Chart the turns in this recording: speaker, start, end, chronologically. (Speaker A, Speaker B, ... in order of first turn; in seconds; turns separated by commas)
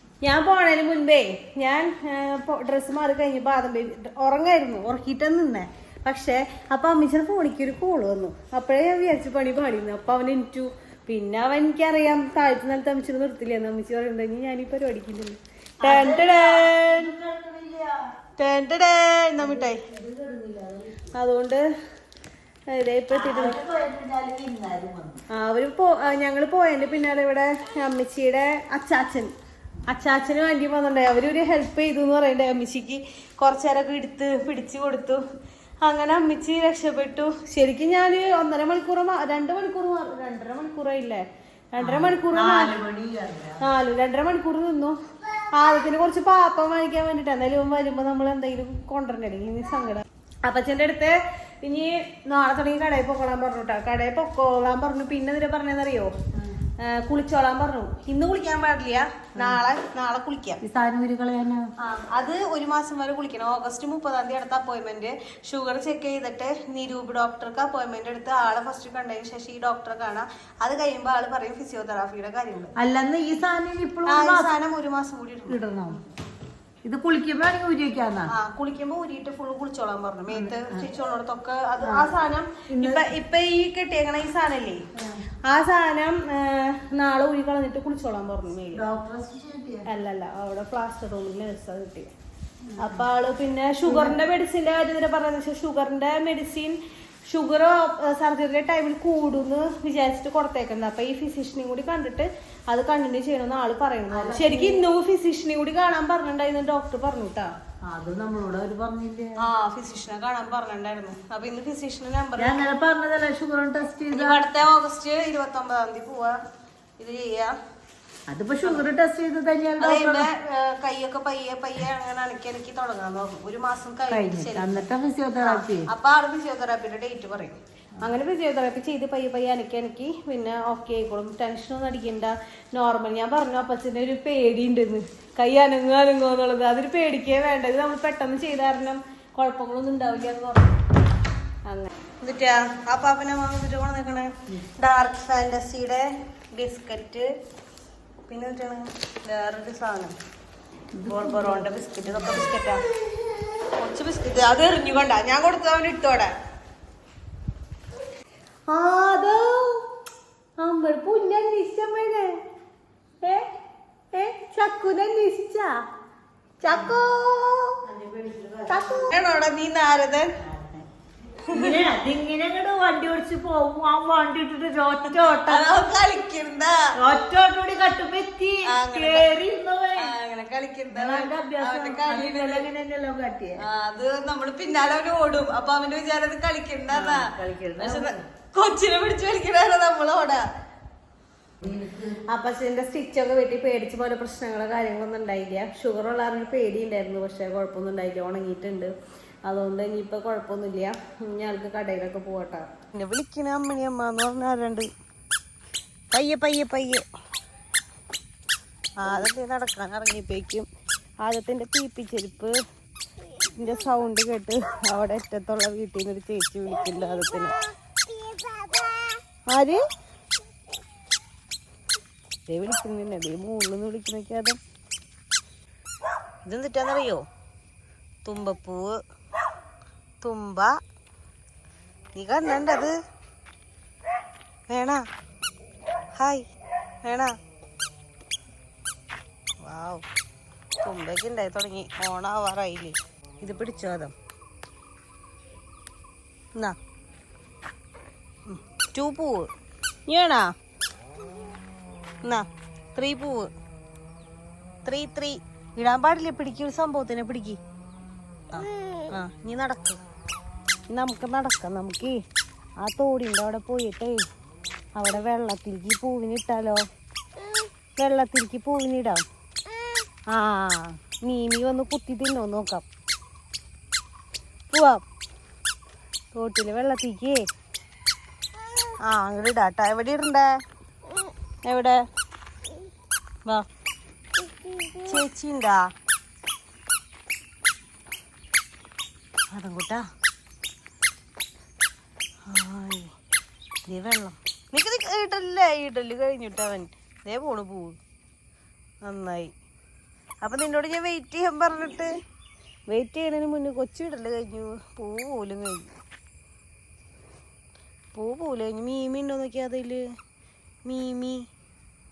Speaker A: 0.2-17.1, Speaker B: 15.8-18.1, Speaker A: 18.4-19.8, Speaker B: 19.4-21.1, Speaker A: 21.1-21.6, Speaker A: 22.7-23.6, Speaker B: 23.1-25.2, Speaker A: 25.3-29.3, Speaker A: 29.9-35.2, Speaker A: 35.8-42.8, Speaker B: 41.8-43.6, Speaker A: 43.6-45.0, Speaker A: 45.5-56.1, Speaker A: 56.8-60.6, Speaker B: 60.6-61.7, Speaker A: 61.8-72.7, Speaker B: 72.8-74.5, Speaker A: 74.0-76.0, Speaker B: 75.5-76.0, Speaker B: 76.8-78.3, Speaker A: 78.3-84.8, Speaker B: 80.3-80.9, Speaker B: 81.8-82.1, Speaker B: 82.7-83.1, Speaker A: 85.4-88.8, Speaker B: 88.7-89.9, Speaker A: 89.9-92.1, Speaker B: 92.7-93.0, Speaker A: 92.8-96.8, Speaker B: 93.8-94.2, Speaker A: 97.3-107.5, Speaker B: 104.1-104.8, Speaker B: 107.8-109.4, Speaker A: 109.4-112.6, Speaker B: 112.4-114.4, Speaker A: 114.1-116.4, Speaker A: 117.0-117.5, Speaker B: 118.3-120.3, Speaker A: 119.8-124.8, Speaker B: 124.1-125.9, Speaker A: 125.4-140.8, Speaker A: 141.7-147.3, Speaker A: 148.3-150.1, Speaker B: 150.9-152.4, Speaker A: 151.0-152.8, Speaker A: 153.8-156.3, Speaker A: 158.7-159.8, Speaker A: 160.6-162.3, Speaker A: 163.2-163.4, Speaker A: 164.1-165.7, Speaker A: 166.6-167.8, Speaker B: 166.7-166.9, Speaker B: 167.8-169.1, Speaker A: 168.7-170.3, Speaker B: 170.4-170.9, Speaker A: 171.5-171.8, Speaker B: 171.5-175.6, Speaker A: 175.1-176.9, Speaker B: 177.0-180.2, Speaker A: 178.7-179.3, Speaker A: 180.0-182.7, Speaker B: 180.9-183.6, Speaker A: 183.6-190.4, Speaker B: 186.9-188.2, Speaker B: 191.6-192.2, Speaker A: 192.2-198.9, Speaker A: 199.4-204.9, Speaker A: 206.1-207.0, Speaker A: 209.0-210.7, Speaker A: 211.2-212.5, Speaker A: 213.6-217.6, Speaker A: 219.5-219.8, Speaker A: 222.5-224.6, Speaker A: 226.4-227.2, Speaker A: 228.2-229.0, Speaker A: 230.2-230.7, Speaker A: 232.1-232.9, Speaker A: 234.7-235.0, Speaker A: 236.2-236.4, Speaker A: 237.0-237.3, Speaker A: 239.6-240.0, Speaker A: 240.8-244.1, Speaker A: 248.5-249.5, Speaker A: 250.1-250.5, Speaker A: 252.2-253.5, Speaker A: 254.8-257.6, Speaker A: 258.5-260.0, Speaker A: 260.9-262.2, Speaker A: 262.8-264.2, Speaker A: 264.9-266.8, Speaker A: 268.0-269.2, Speaker A: 270.3-272.8, Speaker A: 274.7-275.0, Speaker A: 276.3-277.4, Speaker A: 279.0-280.5, Speaker A: 281.6-282.0, Speaker A: 285.0-285.8, Speaker A: 289.5-290.0, Speaker A: 292.5-293.1, Speaker A: 293.9-298.0, Speaker A: 299.0-299.5, Speaker A: 300.4-302.1, Speaker A: 302.9-305.9, Speaker A: 308.1-310.0, Speaker A: 310.8-311.4